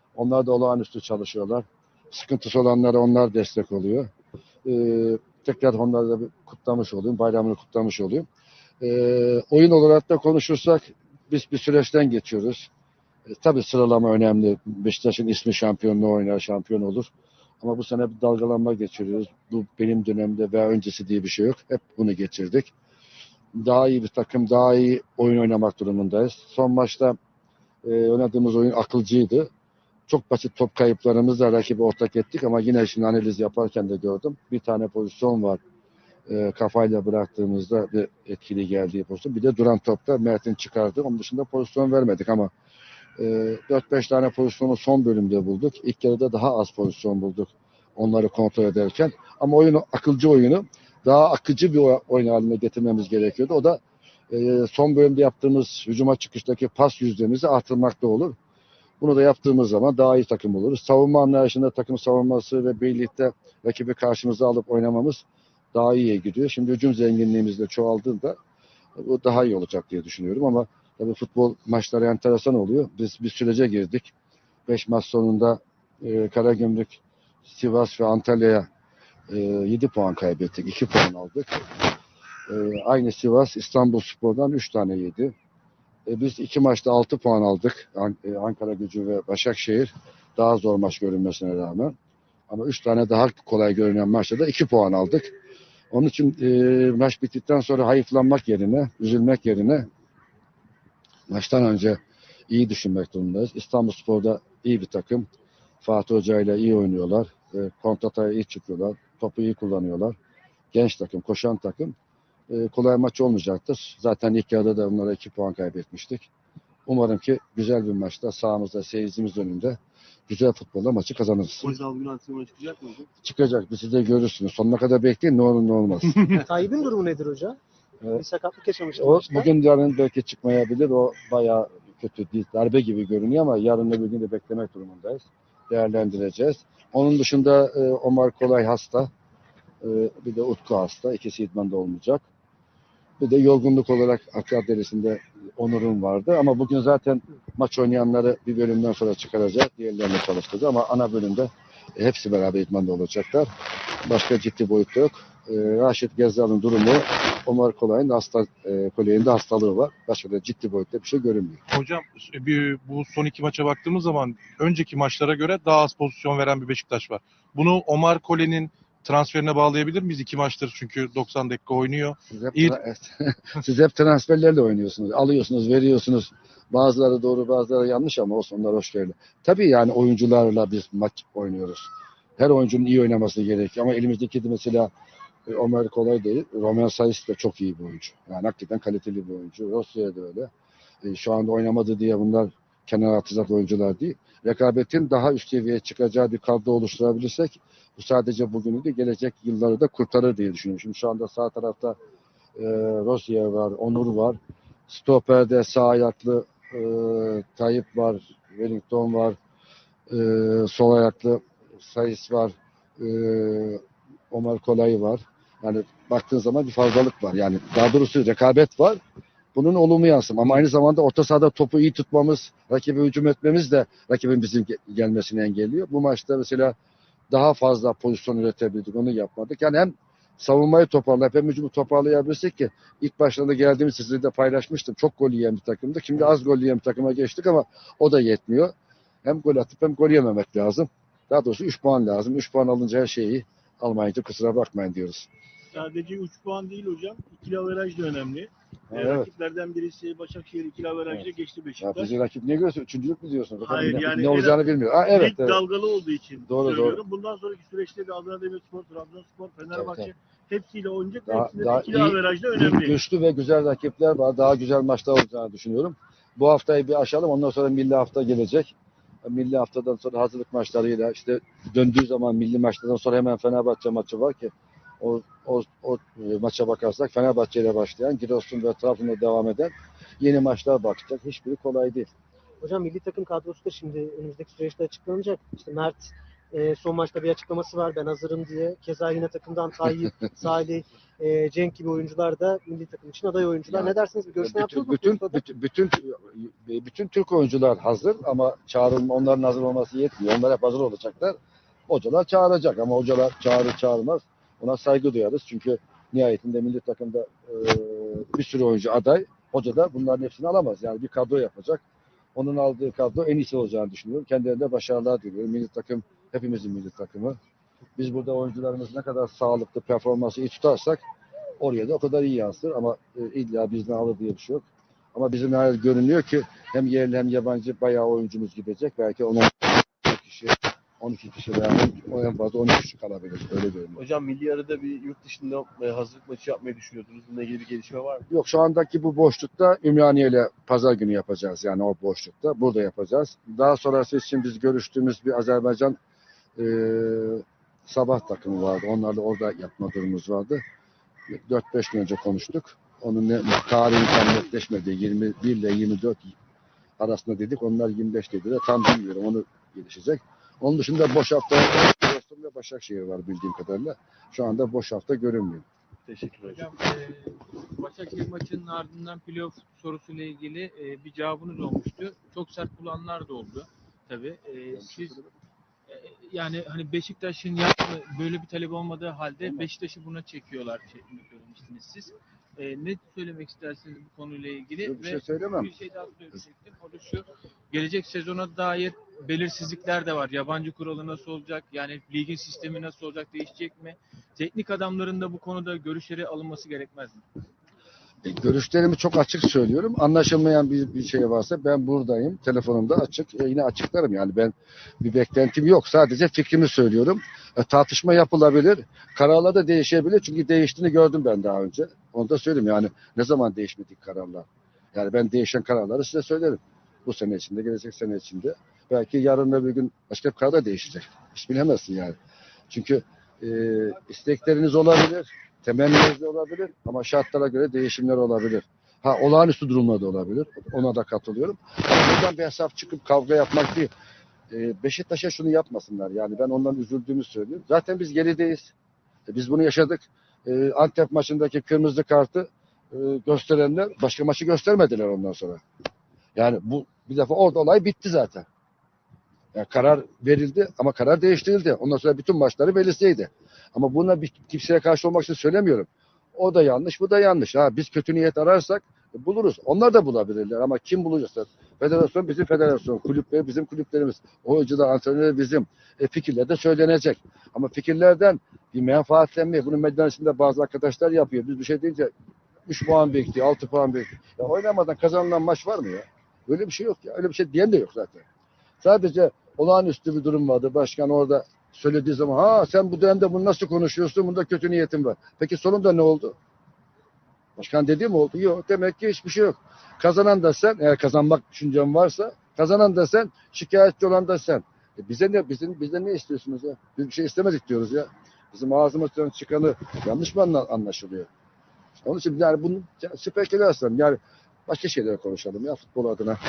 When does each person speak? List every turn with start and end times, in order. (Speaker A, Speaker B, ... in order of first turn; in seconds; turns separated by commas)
Speaker A: 0.2-4.1, Speaker A: 4.7-8.3, Speaker A: 8.8-12.7, Speaker A: 13.3-17.1, Speaker A: 17.6-22.7, Speaker A: 23.6-27.2, Speaker A: 27.8-29.5, Speaker A: 30.1-35.6, Speaker A: 36.3-42.5, Speaker A: 43.2-58.4, Speaker A: 59.0-68.4, Speaker A: 69.0-74.1, Speaker A: 74.7-78.7, Speaker A: 79.3-81.6, Speaker A: 82.5-85.3, Speaker A: 86.1-91.9, Speaker A: 92.5-95.3, Speaker A: 95.9-99.9, Speaker A: 101.3-105.2, Speaker A: 105.8-110.2, Speaker A: 110.7-111.9, Speaker A: 112.5-116.3, Speaker A: 116.9-121.8, Speaker B: 121.6-123.1, Speaker A: 123.2-126.4, Speaker C: 126.5-127.6, Speaker C: 128.1-129.5, Speaker A: 128.9-139.1, Speaker A: 139.8-142.2, Speaker A: 143.2-153.5, Speaker A: 154.1-161.6, Speaker D: 161.7-172.8, Speaker A: 172.3-184.9, Speaker A: 185.5-190.5, Speaker A: 191.0-201.9, Speaker A: 202.6-209.4, Speaker A: 210.1-219.0, Speaker A: 219.6-226.8, Speaker A: 227.3-238.7, Speaker A: 239.2-245.3, Speaker E: 245.7-252.1, Speaker A: 248.9-249.3, Speaker A: 251.8-255.6, Speaker E: 253.6-263.0, Speaker A: 256.4-257.0, Speaker A: 259.7-260.1, Speaker A: 261.3-268.7, Speaker A: 269.2-282.1, Speaker C: 282.6-295.4, Speaker A: 293.7-301.4, Speaker A: 301.9-311.8, Speaker A: 312.4-317.4, Speaker A: 318.0-321.0, Speaker A: 321.6-334.0, Speaker B: 334.0-338.3, Speaker A: 338.3-346.0, Speaker A: 346.6-350.6, Speaker A: 351.5-356.3, Speaker A: 357.0-365.6, Speaker B: 366.1-366.7, Speaker F: 366.4-375.2, Speaker C: 373.2-373.5, Speaker A: 374.7-375.3, Speaker F: 375.9-397.2, Speaker C: 376.1-376.5, Speaker C: 377.1-379.1, Speaker A: 379.4-379.7, Speaker C: 379.8-381.9, Speaker C: 382.6-384.6, Speaker A: 384.8-385.8, Speaker C: 387.9-388.4, Speaker A: 398.2-422.2, Speaker A: 422.7-433.9, Speaker A: 434.5-438.7, Speaker A: 439.3-445.6, Speaker A: 446.4-448.4, Speaker A: 449.5-472.1, Speaker A: 472.7-478.2, Speaker A: 478.8-486.4, Speaker A: 487.6-501.3, Speaker A: 502.0-506.4